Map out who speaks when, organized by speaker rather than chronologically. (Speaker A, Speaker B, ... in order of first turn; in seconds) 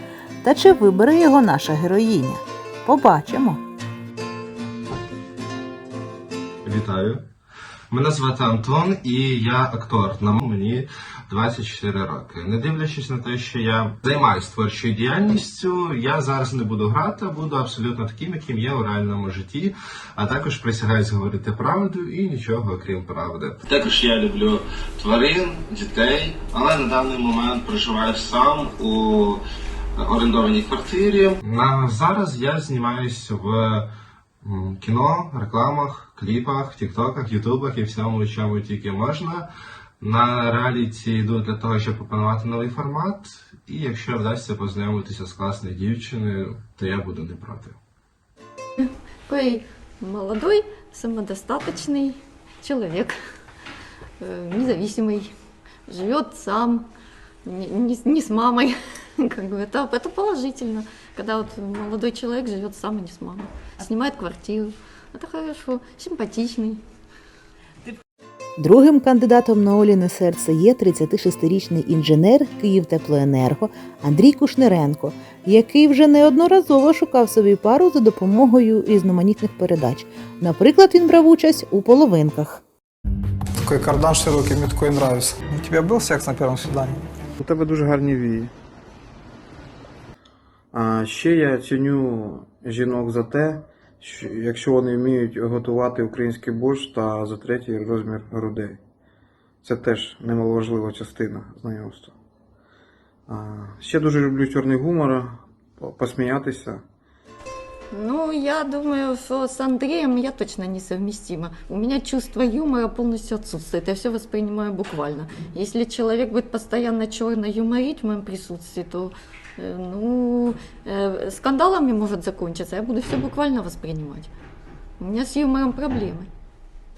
Speaker A: 0.4-3.6, 68.6-82.6
Speaker B: 6.6-7.2, 7.9-29.4, 29.9-33.9, 34.4-39.5, 40.0-47.8
Speaker C: 48.8-53.1, 54.2-55.3, 55.9-56.8, 57.4-66.8, 107.9-124.3, 125.0-126.3
Speaker D: 83.6-87.0
Speaker E: 87.4-88.5, 90.7-98.8, 99.6-102.1, 103.3-106.8